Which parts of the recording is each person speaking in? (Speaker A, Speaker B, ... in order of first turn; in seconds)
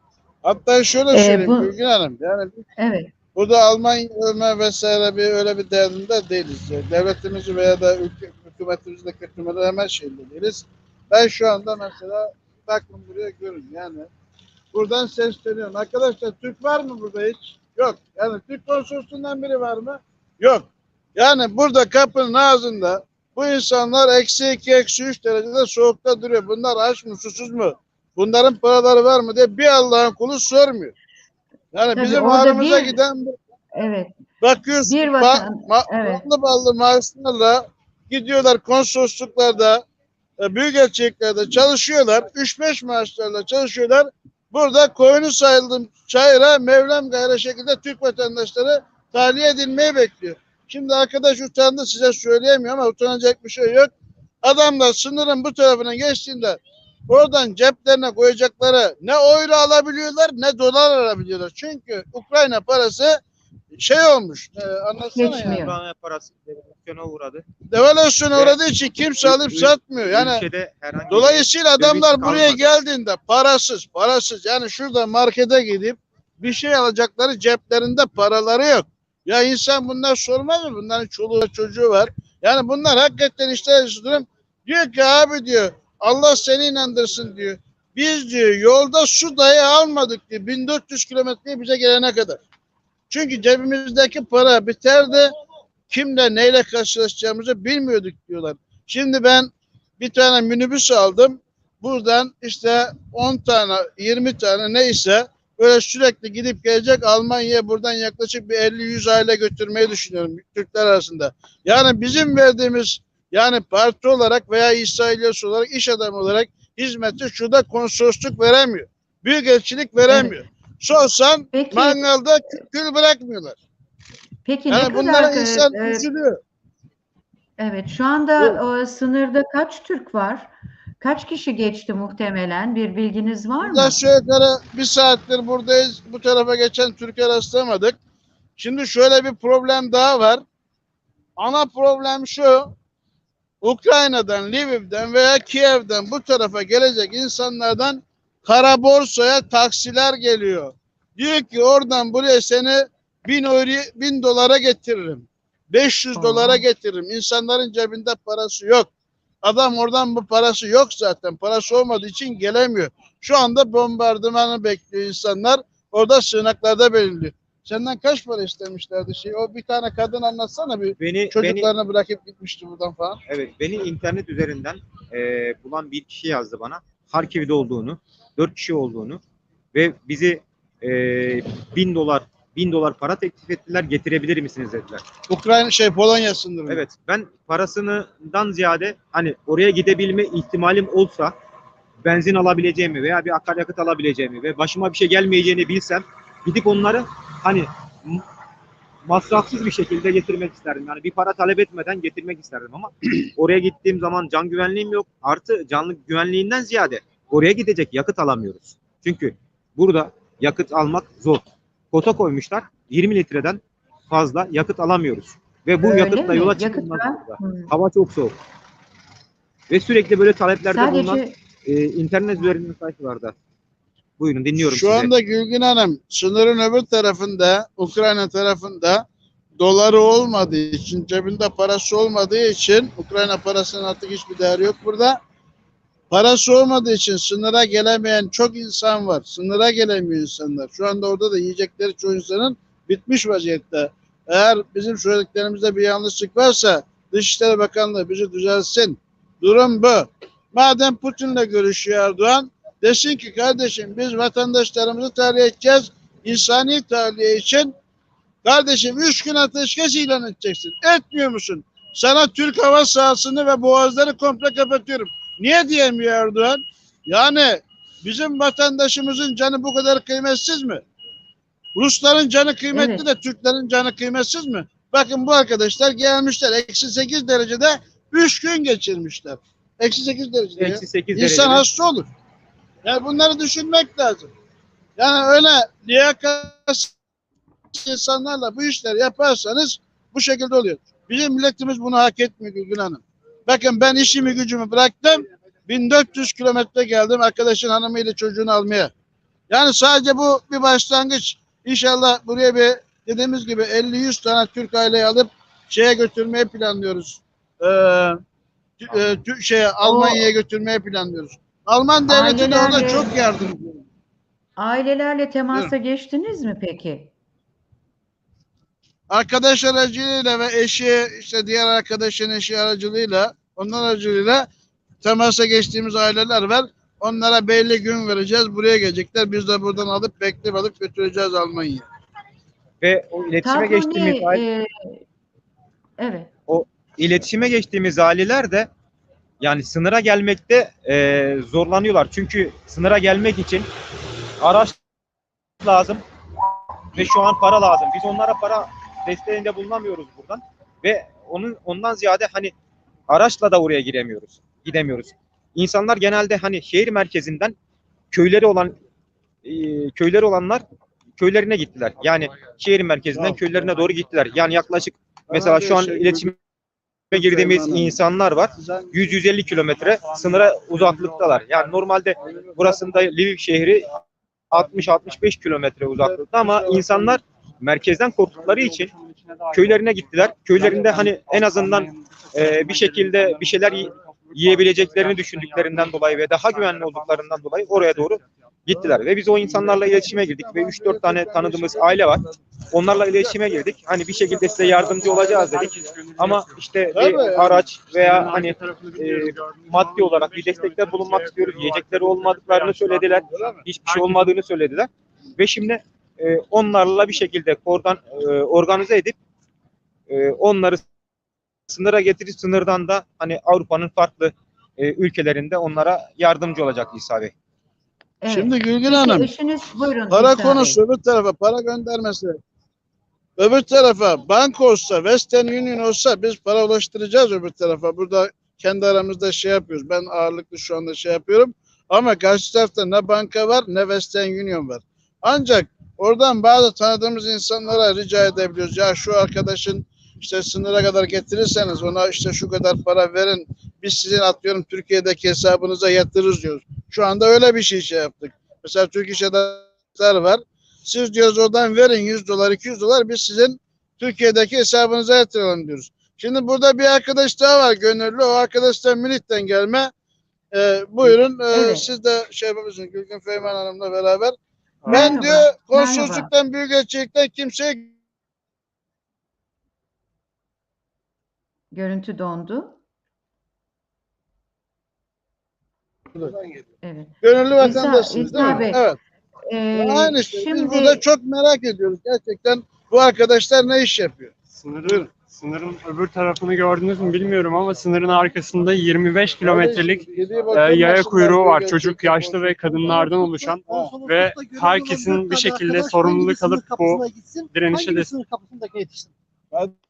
Speaker A: 0.4-2.6, 3.4-14.1, 14.7-30.9, 31.7-33.4, 34.4-39.9, 40.4-63.2, 63.7-65.7, 67.7-70.5, 71.1-92.4, 93.1-95.3, 95.9-123.6, 124.7-126.4, 133.6-138.0, 138.6-140.4, 141.4-142.7, 143.6-158.9, 159.4-173.2, 185.3-186.8, 224.7-229.1, 229.6-235.2, 236.1-257.7, 258.4-270.8, 271.8-282.1, 282.8-284.3, 285.0-286.9, 287.7-298.9, 299.5-308.2, 308.8-313.8, 319.1-324.5, 325.0-331.9, 363.1-363.4, 365.3-366.3, 367.1-368.0, 368.6-369.1, 372.2-372.5, 376.0-377.1, 388.7-392.2, 395.0-395.3, 396.9-397.7, 403.2-403.6, 418.3-419.3, 420.1-422.4, 423.4-459.9, 460.5-468.0, 477.2-479.0, 479.7-485.1, 489.4-493.1, 493.7-493.9
Speaker B: 1.1-1.7, 2.8-3.1, 31.9-33.0, 33.8-34.1, 34.9-36.2, 65.2-65.8, 120.1-120.4, 121.5-122.0, 124.5-126.1, 127.6-134.0, 156.2-156.7, 215.8-217.7, 220.7-221.4, 272.7-273.1, 309.8-310.2, 312.1-313.3, 314.6-317.1, 333.4-335.0, 336.0-336.3, 418.2-420.8, 461.5-461.9, 464.9-466.3, 471.7-472.8, 476.8-478.8, 479.5-481.0
Speaker C: 65.4-67.5, 68.3-68.6, 69.2-72.7, 171.0-171.7, 173.3-179.2, 179.7-185.1, 186.7-191.3, 192.0-198.2, 199.1-218.3, 219.7-223.3, 224.2-225.1, 280.6-281.6, 332.8-334.4, 336.5-338.7, 339.4-343.7, 344.4-344.8, 345.6-346.0, 346.9-352.5, 353.1-357.6, 358.1-358.8, 359.4-360.6, 361.2-366.4, 367.1-378.9, 379.5-409.2, 410.1-410.8, 411.7-417.3
Speaker D: 369.8-371.8, 378.3-388.3, 394.2-404.3, 464.8-465.2, 484.5-498.1
Speaker E: 492.8-499.1